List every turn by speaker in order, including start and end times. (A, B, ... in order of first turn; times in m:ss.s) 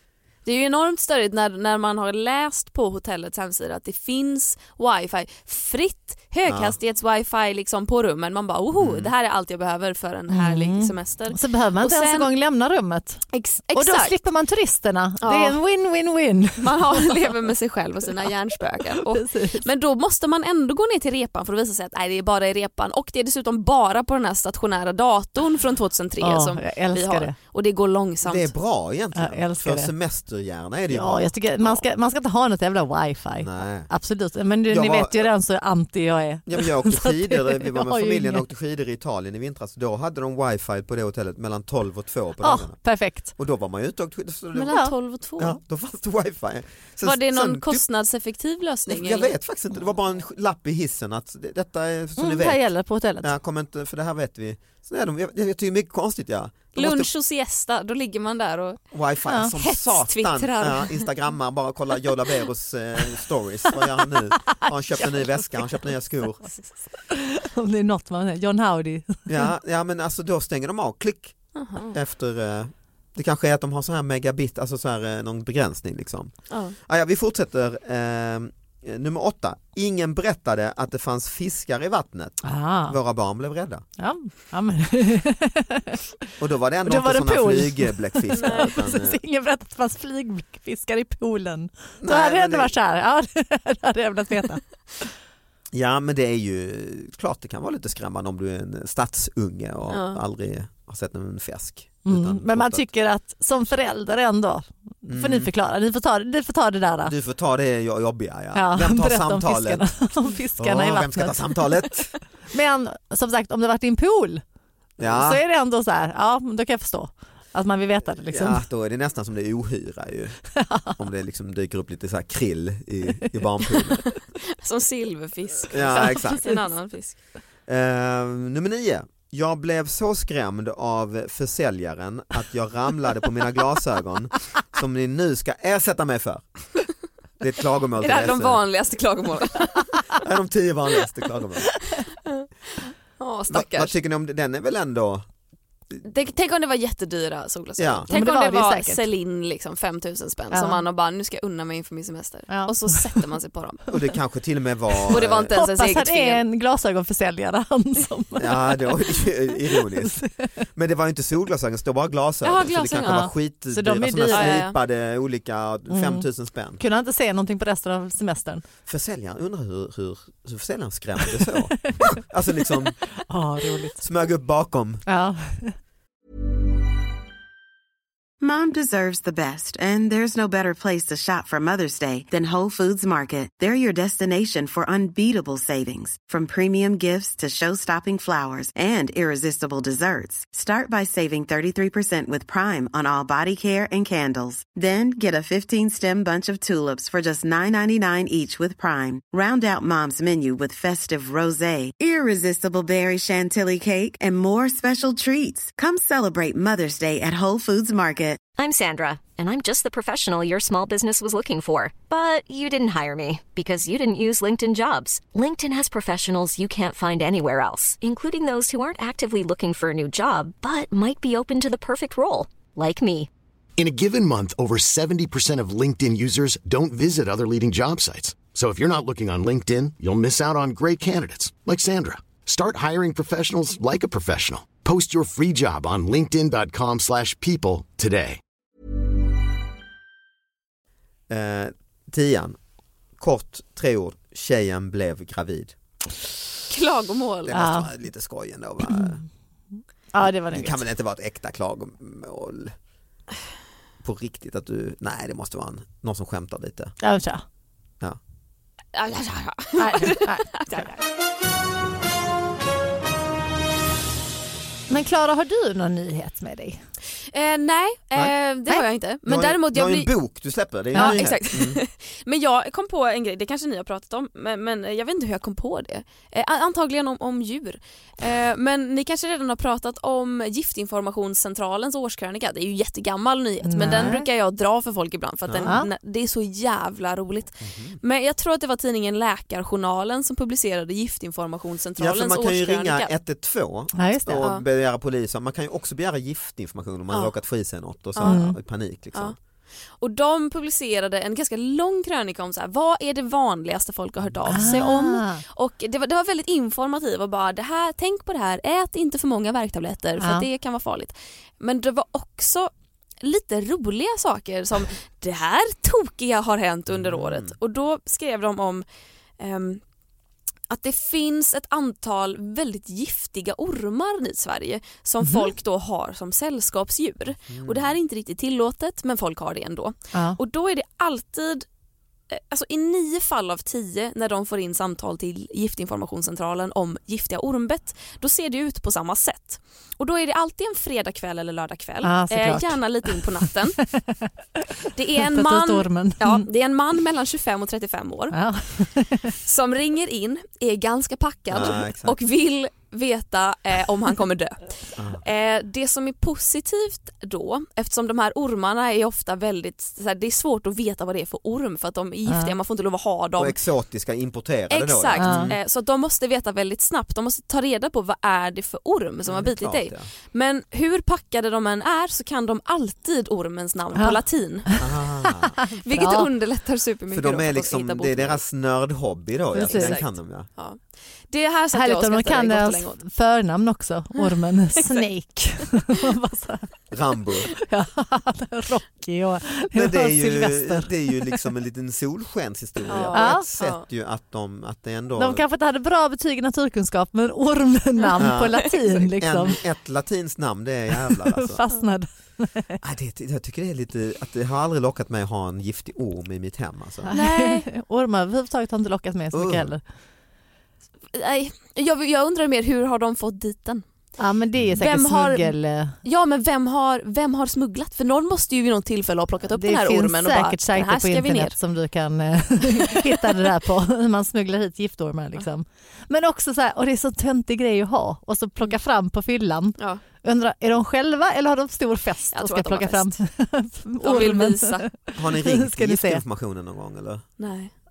0:00.4-0:12.3 A
0:06.5-0:06.8 B
0:08.8-0:09.1 B
0:10.3-0:17.2 C
0:13.3-0:14.2 A
0:15.2-0:15.6 A
0:16.6-0:28.5 A
0:19.1-0:19.6 C
0:26.2-0:27.3 C
0:28.2-0:31.8 B
0:29.1-0:29.9 C
0:30.9-0:38.4 C
0:33.4-0:33.9 B
0:34.7-0:35.3 B
0:36.4-0:47.8 B
0:42.4-0:43.3 C
0:44.5-0:45.6 A
0:47.0-0:49.4 A
0:48.9-0:52.7 B
0:52.2-0:53.3 C
0:53.2-0:57.1 B
0:56.7-0:58.8 A
0:58.9-1:06.4 B
0:59.5-1:01.1 A
1:07.1-1:09.2 C
1:09.3-1:11.4 B
1:11.5-1:12.0 A
1:11.9-1:23.8 B
1:16.5-1:16.8 A
1:22.4-1:23.0 C
1:24.0-1:26.0 C
1:26.4-1:29.2 B
1:26.8-1:34.6 C
1:28.3-1:28.7 A
1:32.0-1:32.7 B
1:35.7-1:42.8 B
1:39.9-1:40.2 A
1:42.0-1:47.1 C
1:45.1-1:45.5 B
1:47.0-1:49.9 B
1:48.5-1:51.9 C
1:50.6-1:52.1 B
1:52.5-1:54.4 C
1:55.0-1:55.4 B
1:55.0-1:58.6 C
1:58.3-2:04.0 B
2:00.6-2:01.0 C
2:04.6-2:07.2 A
2:05.7-2:06.5 B
2:07.7-2:16.4 B
2:17.4-2:18.6 B
2:18.0-2:20.0 A
2:20.2-2:21.8 B
2:22.3-2:23.9 A
2:23.5-2:25.3 B
2:26.0-2:33.9 A
2:27.8-2:28.1 B
2:28.1-2:29.0 C
2:30.5-2:30.8 C
2:32.5-2:32.9 C
2:33.9-2:35.5 B
2:35.1-2:36.4 A
2:35.5-2:39.2 C
2:38.4-2:40.2 B
2:39.8-2:40.5 C
2:40.7-2:46.8 B
2:42.4-2:43.3 A
2:43.0-2:44.7 C
2:44.3-2:44.8 A
2:45.9-2:46.2 C
2:46.8-2:48.6 C
2:48.8-2:53.0 B
2:53.3-2:54.0 C
2:54.0-2:55.0 B
2:55.0-2:55.8 C
2:58.4-3:28.4 D
3:28.6-3:43.3 E
3:43.8-3:58.4 F
4:01.3-4:02.6 B
4:03.2-4:05.7 B
4:06.7-4:07.5 A
4:07.4-4:09.2 B
4:07.5-4:07.9 C
4:10.1-4:10.8 C
4:10.2-4:12.7 B
4:14.0-4:16.9 B
4:17.0-4:17.4 C
4:18.9-4:21.0 A
4:19.8-4:20.9 C
4:24.9-4:26.8 C
4:27.3-4:30.1 A
4:29.2-4:31.8 B
4:30.9-4:53.1 A
4:30.9-4:31.2 C
4:43.7-4:44.2 C
4:45.5-4:45.8 B
4:47.6-4:48.0 B
4:52.0-4:59.3 B
4:54.0-4:54.5 C
4:58.1-4:58.4 A
4:58.2-4:58.6 C
5:00.0-5:12.7 A
5:04.2-5:04.9 B
5:04.5-5:05.4 C
5:10.2-5:10.4 C
5:13.2-5:18.8 A
5:16.9-5:17.6 B
5:19.4-5:19.8 A
5:20.7-5:31.6 A
5:25.2-5:25.5 C
5:27.5-5:28.0 B
5:30.1-5:30.4 C
5:32.3-5:43.8 A
5:42.0-5:44.3 C
5:44.9-5:48.4 A
5:45.2-5:46.4 C
5:48.3-5:49.3 C
5:49.3-6:03.6 A
5:51.5-5:52.1 B
5:55.0-5:55.2 B
6:02.3-6:02.5 C
6:03.4-6:05.6 B
6:04.7-6:14.7 A
6:05.2-6:05.5 C
6:09.3-6:10.1 B
6:14.0-6:14.8 C
6:14.8-6:15.6 B
6:15.6-6:16.3 C
6:15.8-6:18.4 A
6:17.1-6:20.5 B
6:19.5-6:20.0 C
6:19.6-6:23.0 A
6:21.7-6:26.7 C
6:24.2-6:25.0 A
6:26.9-6:27.5 B
6:27.7-6:31.5 C
6:29.7-6:35.4 B
6:32.9-6:33.8 A
6:33.1-6:33.4 C
6:35.2-6:39.6 C
6:38.2-6:41.6 B
6:41.1-6:42.8 C
6:42.8-6:47.1 B
6:47.1-6:47.6 A
6:47.1-6:49.8 C
6:49.3-6:49.7 B
6:51.1-6:53.8 A
6:54.2-6:55.9 C
6:54.5-6:54.8 B
6:54.8-7:01.5 A
6:59.5-7:16.2 C
7:02.9-7:03.2 A
7:12.3-7:13.1 A
7:14.0-7:14.9 A
7:15.2-7:17.3 B
7:17.4-7:17.7 A